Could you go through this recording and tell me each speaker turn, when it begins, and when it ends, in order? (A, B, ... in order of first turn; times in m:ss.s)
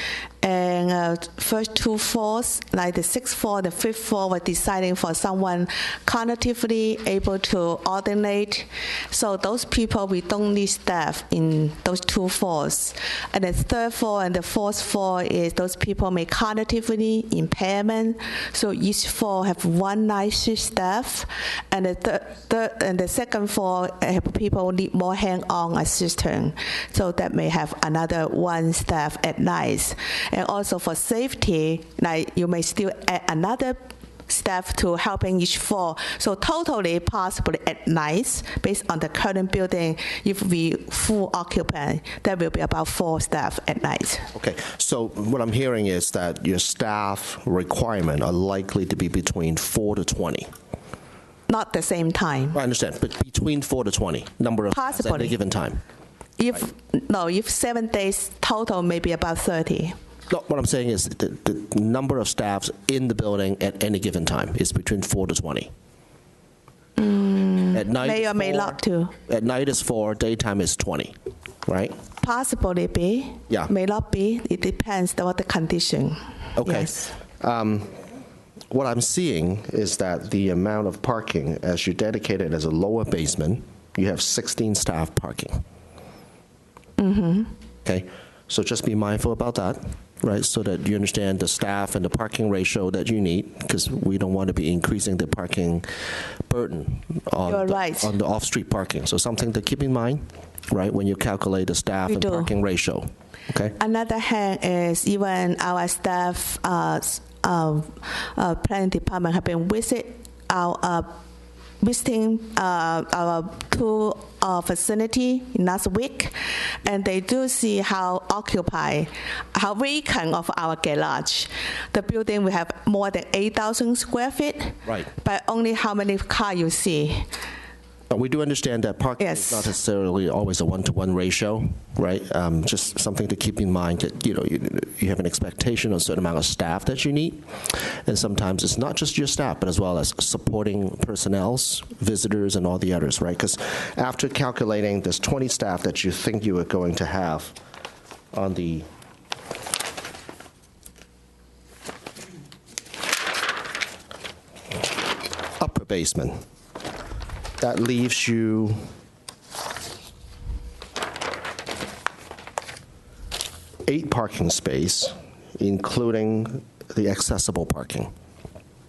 0:00.4-0:44.3 A
0:44.4-0:50.5 B
0:51.5-0:52.6 A
0:52.5-0:55.8 B
0:54.7-0:55.4 A
0:56.4-0:59.9 A
1:00.3-1:05.7 B
1:07.0-1:09.1 A
1:07.7-1:11.1 B
1:11.7-1:12.0 B
1:12.2-1:17.1 A
1:16.6-1:18.0 B
1:18.7-1:25.6 B
1:27.0-1:27.5 A
1:27.8-1:35.9 B
1:36.5-1:43.8 B
1:37.5-1:38.1 A
1:42.1-1:42.5 A
1:43.8-1:51.1 A
1:51.8-2:07.2 A
2:08.1-2:27.5 B
2:09.2-2:09.7 A
2:28.3-2:28.9 B
2:35.6-2:36.4 B
2:37.6-2:38.8 B
2:43.9-2:48.1 B